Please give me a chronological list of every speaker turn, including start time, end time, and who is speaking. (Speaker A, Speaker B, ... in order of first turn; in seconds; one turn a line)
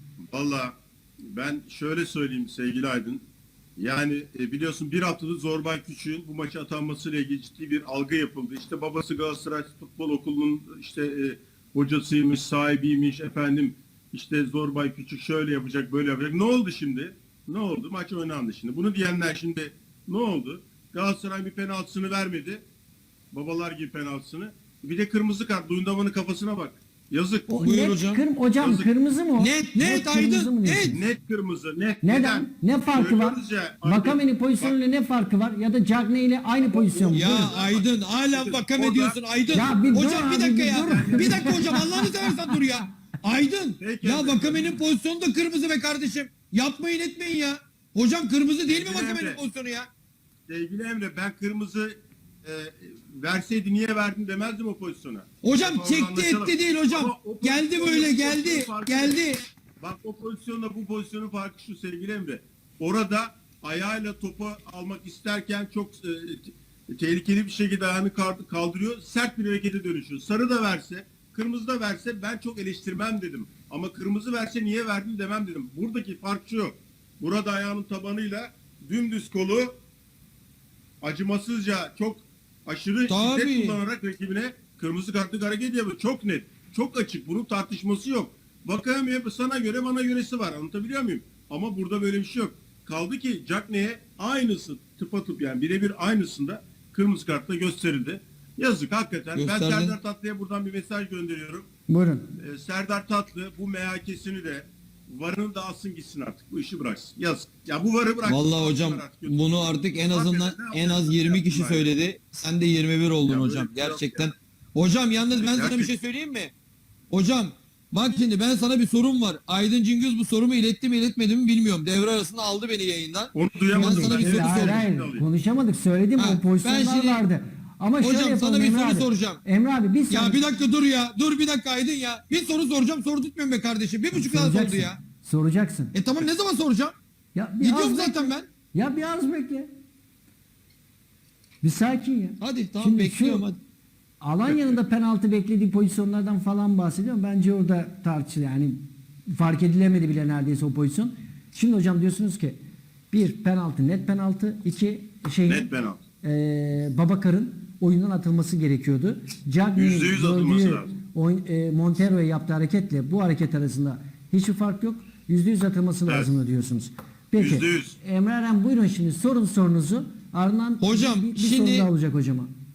Speaker A: 0.2-3.2
Speaker A: 3.8-22.6
Speaker A: 23.3-27.6
Speaker B: 27.5-31.0
Speaker C: 27.6-28.2
Speaker A: 28.6-28.9
Speaker C: 29.4-31.0
Speaker A: 30.9-34.8
Speaker B: 32.0-37.5
Speaker A: 36.6-39.2
Speaker C: 37.1-49.9
Speaker B: 39.5-42.6
Speaker A: 39.7-40.0
Speaker A: 40.8-41.9
Speaker A: 43.8-44.8
Speaker A: 48.7-49.4
Speaker A: 50.5-59.2
Speaker C: 55.4-59.4
Speaker A: 59.8-79.8
Speaker A: 81.0-101.7
Speaker C: 83.1-83.8
Speaker C: 99.4-100.0
Speaker B: 101.9-102.3
Speaker A: 102.4-111.9
Speaker C: 108.2-116.5
Speaker A: 113.3-114.3
Speaker A: 115.3-115.9
Speaker C: 117.1-124.9
Speaker A: 123.3-125.2
Speaker B: 123.7-130.4
Speaker C: 126.2-127.2
Speaker C: 128.0-129.4
Speaker C: 130.1-135.0
Speaker B: 134.1-135.9
Speaker C: 135.9-136.9
Speaker B: 137.3-139.7
Speaker C: 137.6-138.5
Speaker B: 141.6-143.5
Speaker C: 142.4-143.6
Speaker B: 144.2-152.6
Speaker A: 144.5-144.8
Speaker B: 153.1-155.7
Speaker A: 155.5-156.0
Speaker B: 156.2-172.5
Speaker A: 159.8-160.9
Speaker A: 167.4-168.0
Speaker C: 170.8-171.9